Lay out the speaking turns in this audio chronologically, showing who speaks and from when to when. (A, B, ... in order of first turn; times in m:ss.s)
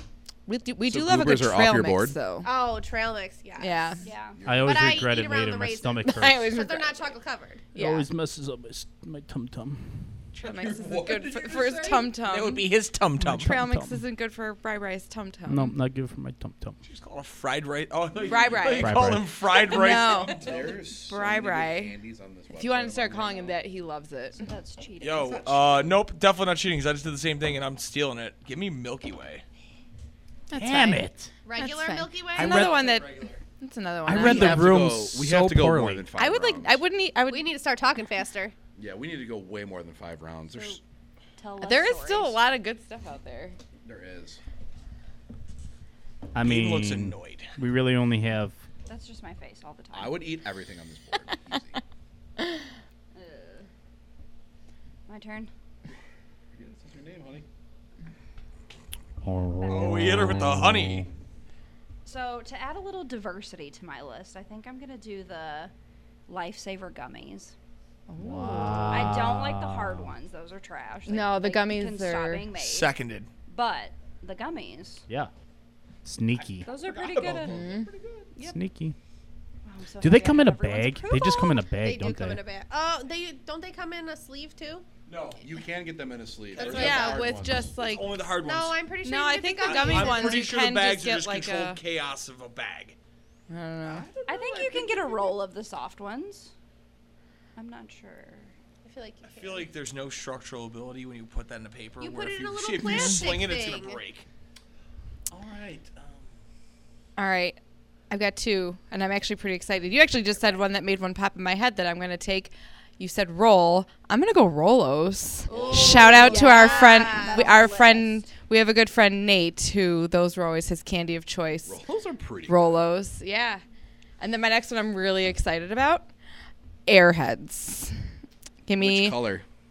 0:00.5-0:02.5 A
0:00.8-0:02.2 B
0:02.4-0:03.9 C
0:03.6-0:04.0 A
0:04.0-0:04.4 D
0:04.3-0:05.1 B
0:04.4-0:06.5 E
0:04.6-0:07.6 C
0:06.0-0:07.1 A
0:07.7-0:08.1 A
0:07.7-0:10.1 E
0:10.4-0:12.7 A
0:10.5-0:13.6 F
0:13.2-0:14.0 E
0:13.2-0:15.7 A
0:15.5-0:16.8 E
0:16.8-0:20.7 F
0:18.2-0:22.0 A
0:18.8-0:19.3 E
0:20.4-0:23.6 B
0:22.5-0:24.4 A
0:24.3-0:25.6 D
0:25.0-0:29.4 F
0:25.6-0:25.9 B
0:30.5-0:31.0 A
0:30.6-0:31.3 E
0:31.4-0:32.8 C
0:31.5-0:34.8 A
0:32.4-0:33.4 F
0:34.1-0:36.1 E
0:34.1-0:36.8 B
0:36.2-0:37.5 A
0:37.3-0:38.5 C
0:38.8-0:40.8 B
0:40.5-0:40.8 D
0:41.4-0:42.4 D
0:41.6-0:43.6 A
0:43.8-0:44.4 B
0:46.3-0:48.6 E
0:46.4-0:47.5 F
0:48.8-0:50.3 D
0:49.9-0:51.8 B
0:53.1-0:53.7 D
0:55.1-0:55.5 D
0:56.5-0:57.4 B
0:59.2-1:01.1 E
0:59.6-1:00.0 D
0:59.7-1:01.1 F
1:02.0-1:05.7 D
1:06.3-1:07.5 D
1:08.1-1:09.2 A
1:08.2-1:10.1 E
1:08.9-1:12.9 D
1:11.0-1:12.4 A
1:12.6-1:13.3 F
1:13.5-1:15.0 D
1:16.0-1:16.7 E
1:16.6-1:17.6 D
1:16.6-1:17.9 F
1:17.4-1:18.2 B
1:17.5-1:17.9 A
1:18.4-1:19.0 E
1:19.6-1:21.7 D
1:20.0-1:22.4 E
1:21.7-1:24.8 C
1:25.0-1:25.4 F
1:25.4-1:27.7 B
1:26.6-1:28.8 F
1:26.6-1:27.2 C
1:26.6-1:28.2 A
1:28.4-1:30.4 C
1:29.0-1:31.8 A
1:29.6-1:33.0 F
1:33.5-1:34.1 A
1:33.8-1:34.8 F
1:34.2-1:36.5 D
1:37.6-1:38.5 D
1:38.8-1:39.7 C
1:39.2-1:44.2 F
1:42.0-1:44.0 C
1:45.3-1:46.2 F
1:47.2-1:47.6 A
1:48.1-2:01.8 A
1:55.5-1:56.4 F
1:55.6-1:57.5 C
1:55.7-1:58.3 D
2:01.6-2:02.9 B
2:02.4-2:03.6 A
2:04.2-2:06.1 A
2:06.8-2:07.9 A
2:08.6-2:09.2 A
2:08.8-2:09.4 B